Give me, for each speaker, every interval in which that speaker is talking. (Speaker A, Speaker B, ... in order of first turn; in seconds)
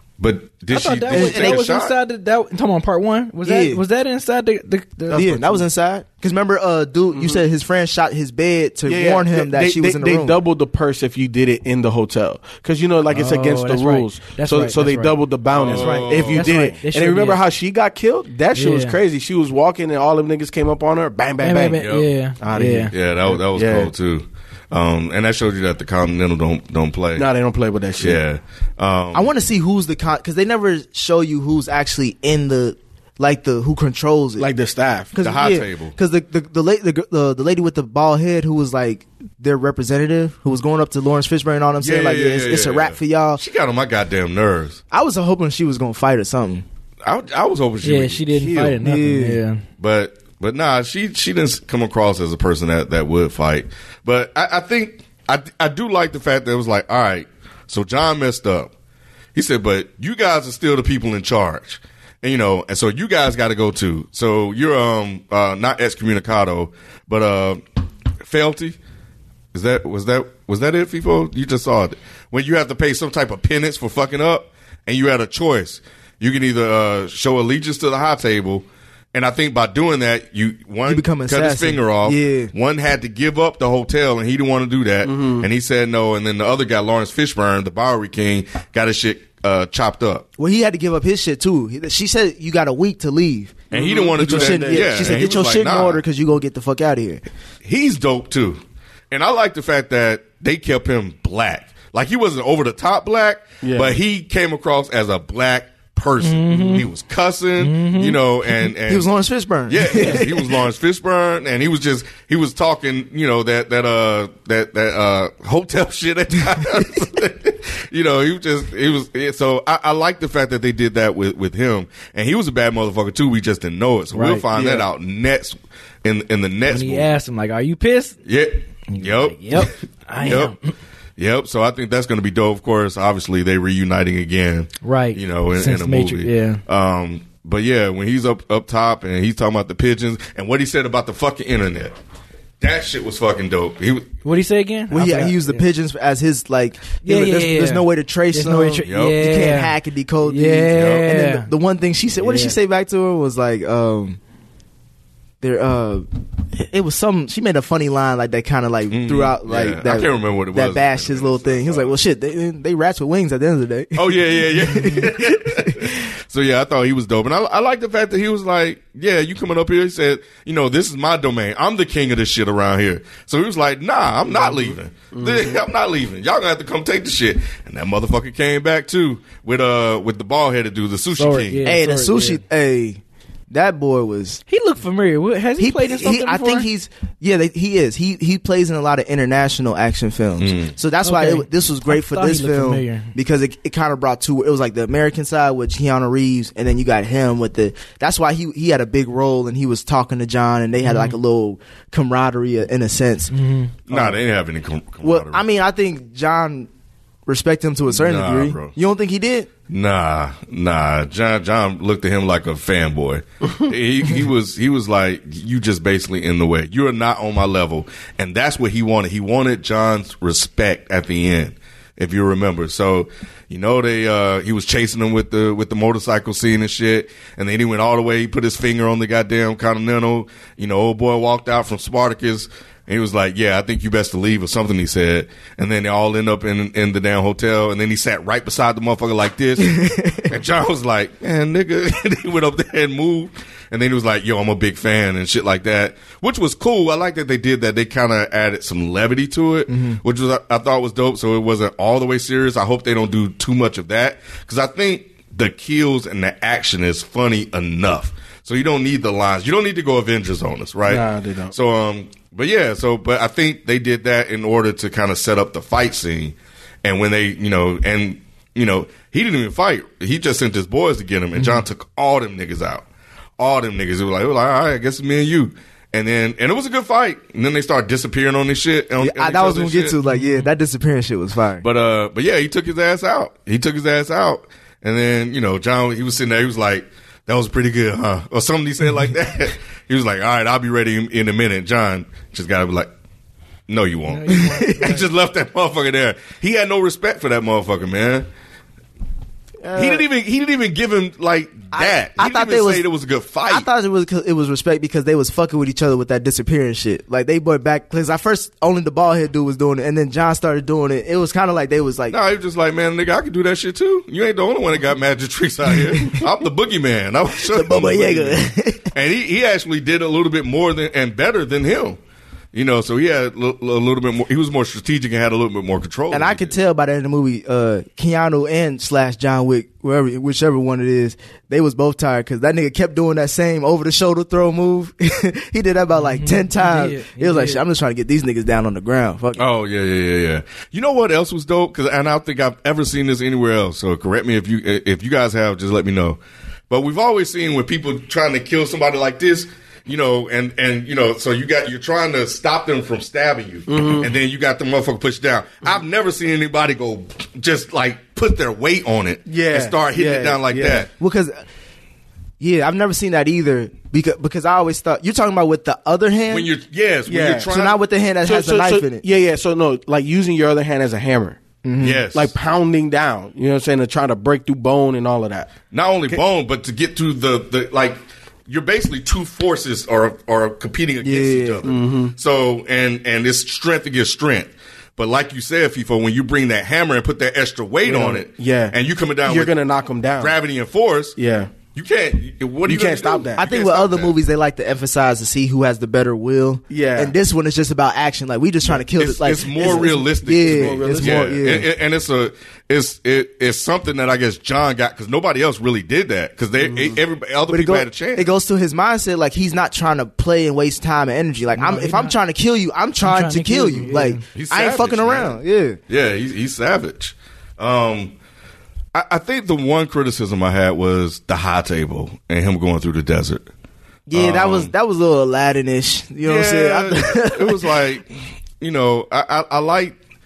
Speaker A: 0.2-1.9, 15.5-16.8, 21.8-22.1, 22.9-27.2, 28.0-29.3, 35.2-35.9, 41.8-44.8, 47.0-48.8, 49.8-58.7, 59.3-67.6, 68.2-68.8, 69.5-90.3, 93.7-96.0, 97.6-109.1, 109.7-127.1, 128.2-130.5, 131.2-141.9, 142.6-144.1, 148.8-149.2, 150.7-151.1, 158.9-161.9, 163.9-181.7, 190.4-190.7, 203.9-205.4, 207.9-208.7, 209.7-272.8, 273.4-279.9, 281.6-292.9, 293.7-298.3, 299.7-303.6, 312.1-318.4, 318.9-322.0, 322.5-326.6, 339.4-360.9, 366.3-367.8, 371.8-372.3, 375.7-389.5, 390.2-391.2, 391.7-394.1, 398.9-408.3, 414.3-415.4, 415.9-418.1, 418.9-423.5, 424.1-424.7, 426.2-429.9
Speaker B: 0.7-5.5, 13.1-15.1, 15.7-17.4, 18.5-19.0, 21.4-22.9, 47.8-49.6, 106.2-106.9, 107.6-108.2, 109.9-110.2, 124.1-124.5, 126.7-128.2, 128.9-130.6, 134.8-136.6, 144.2-145.6, 147.0-151.5, 152.2-152.6, 181.2-182.4, 184.5-186.7, 191.0-193.1, 200.8-201.2, 203.3-203.7, 280.1-280.4, 294.1-295.0, 336.0-337.6, 411.6-412.1, 413.0-414.2
Speaker C: 1.1-1.6, 3.4-3.8, 5.1-10.4, 29.1-34.5, 35.1-43.4, 44.9-46.6, 48.8-49.4, 80.8-82.5, 90.4-93.6, 94.2-97.2, 108.7-110.6, 144.9-154.2, 155.4-165.9, 181.6-184.4, 185.6-203.3, 203.9-204.2, 205.0-206.7, 207.3-209.5, 239.6-240.3, 249.7-250.0, 279.0-281.6, 294.3-295.0, 299.6-300.1, 301.7-302.8, 303.5-312.2, 315.8-316.2, 317.4-318.9, 326.1-339.4, 359.9-361.4, 362.4-366.5, 367.5-369.0, 371.6-372.0, 381.0-381.7, 393.4-401.7, 407.5-415.8, 424.1-427.8
Speaker D: 5.1-5.4, 7.1-7.4, 8.9-21.9, 22.4-23.9, 27.1-28.2, 34.4-35.1, 85.0-85.5, 93.7-95.2, 103.6-104.0, 124.5-124.8, 174.2-175.6, 260.9-261.5, 353.7-354.1, 359.3-359.9, 360.5-360.9, 367.1-367.5, 368.2-371.4, 372.1-375.6, 381.6-382.1, 387.8-390.3, 391.2-391.5, 392.6-393.4, 396.7-397.1, 399.6-399.9, 400.4-401.4, 406.6-407.0